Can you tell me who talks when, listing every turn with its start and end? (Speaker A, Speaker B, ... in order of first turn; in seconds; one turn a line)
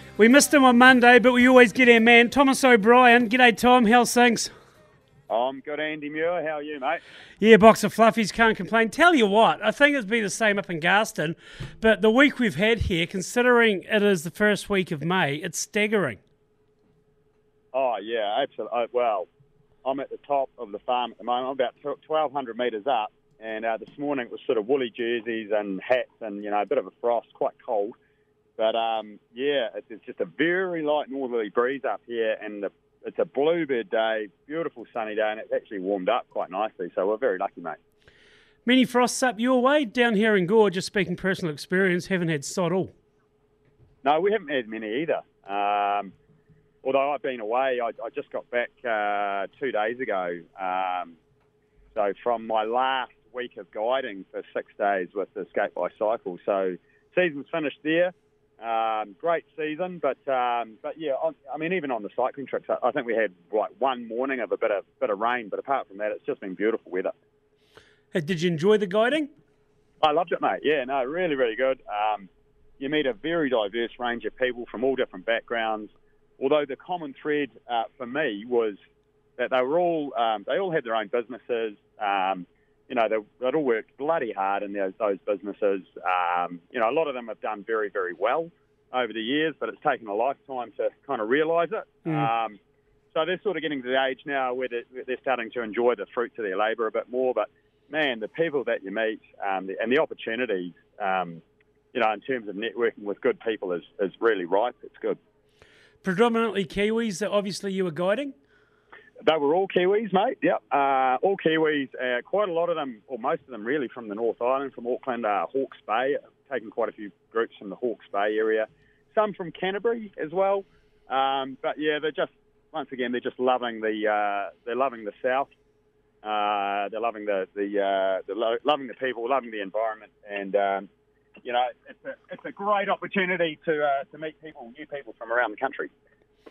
Speaker A: 0.2-4.5
Speaker B: 5.3-7.0
Speaker A: 7.4-16.2
Speaker B: 17.7-19.3
Speaker B: 19.8-27.9
Speaker B: 28.6-37.8
Speaker A: 38.6-42.9
Speaker B: 44.0-46.1
Speaker B: 46.8-51.1
Speaker B: 51.9-67.1
Speaker A: 68.1-69.3
Speaker B: 70.0-78.8
Speaker B: 79.4-92.6
Speaker B: 93.1-101.4
Speaker B: 101.9-105.2
Speaker A: 106.0-108.3
Speaker B: 109.2-125.5
Speaker B: 126.2-130.9
Speaker B: 131.4-135.9